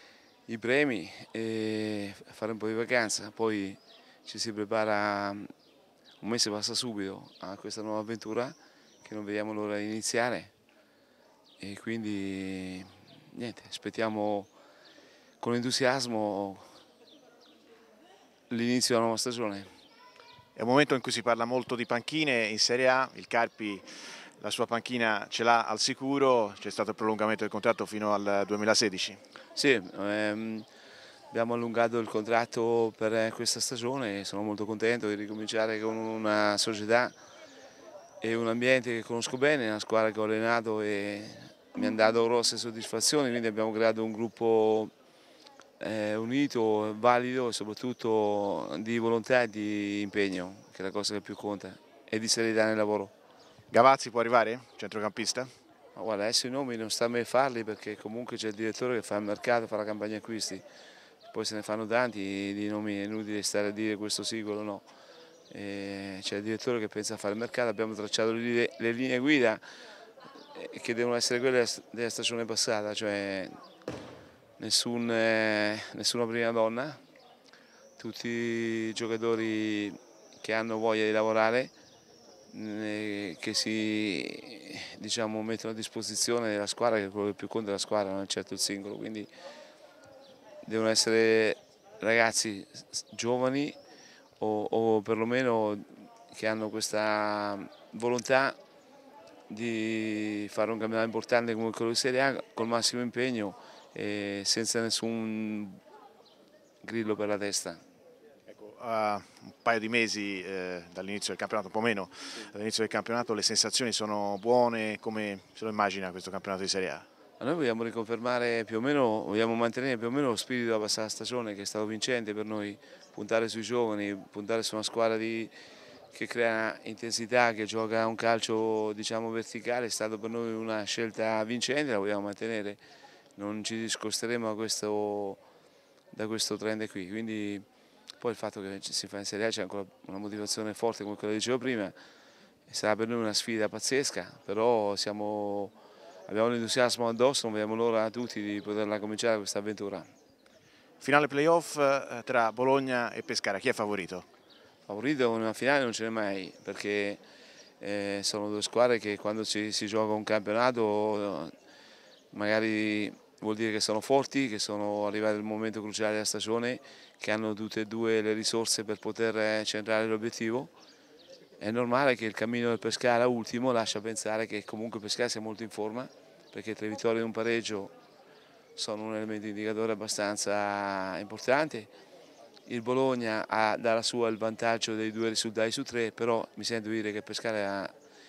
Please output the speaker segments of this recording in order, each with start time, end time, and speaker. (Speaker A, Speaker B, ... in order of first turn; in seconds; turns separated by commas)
Speaker A: 0.5-5.5, Speaker A: 6.2-10.5, Speaker A: 11.6-14.5, Speaker A: 15.4-16.6, Speaker A: 18.5-19.7, Speaker B: 20.6-23.8, Speaker B: 24.4-29.2, Speaker A: 29.5-30.6, Speaker A: 31.3-37.1, Speaker A: 38.2-44.9, Speaker A: 45.8-53.1, Speaker B: 53.7-55.5, Speaker A: 55.9-60.6, Speaker A: 61.3-64.8, Speaker A: 65.5-69.6, Speaker A: 70.5-73.5, Speaker A: 74.6-77.0, Speaker A: 78.0-81.7, Speaker A: 82.5-89.3, Speaker A: 90.6-93.7, Speaker A: 94.4-98.6, Speaker A: 99.5-105.8, Speaker A: 106.8-107.8, Speaker B: 108.5-117.0, Speaker A: 117.4-125.5, Speaker A: 126.1-132.8, Speaker A: 133.4-135.4, Speaker A: 136.1-137.6, Speaker A: 138.2-141.9, Speaker A: 142.7-145.7, Speaker A: 146.3-150.1, Speaker B: 151.0-154.3, Speaker A: 154.9-157.2, Speaker A: 157.8-161.5, Speaker A: 162.3-170.7, Speaker A: 171.6-177.9, Speaker A: 178.8-181.9, Speaker A: 182.7-187.9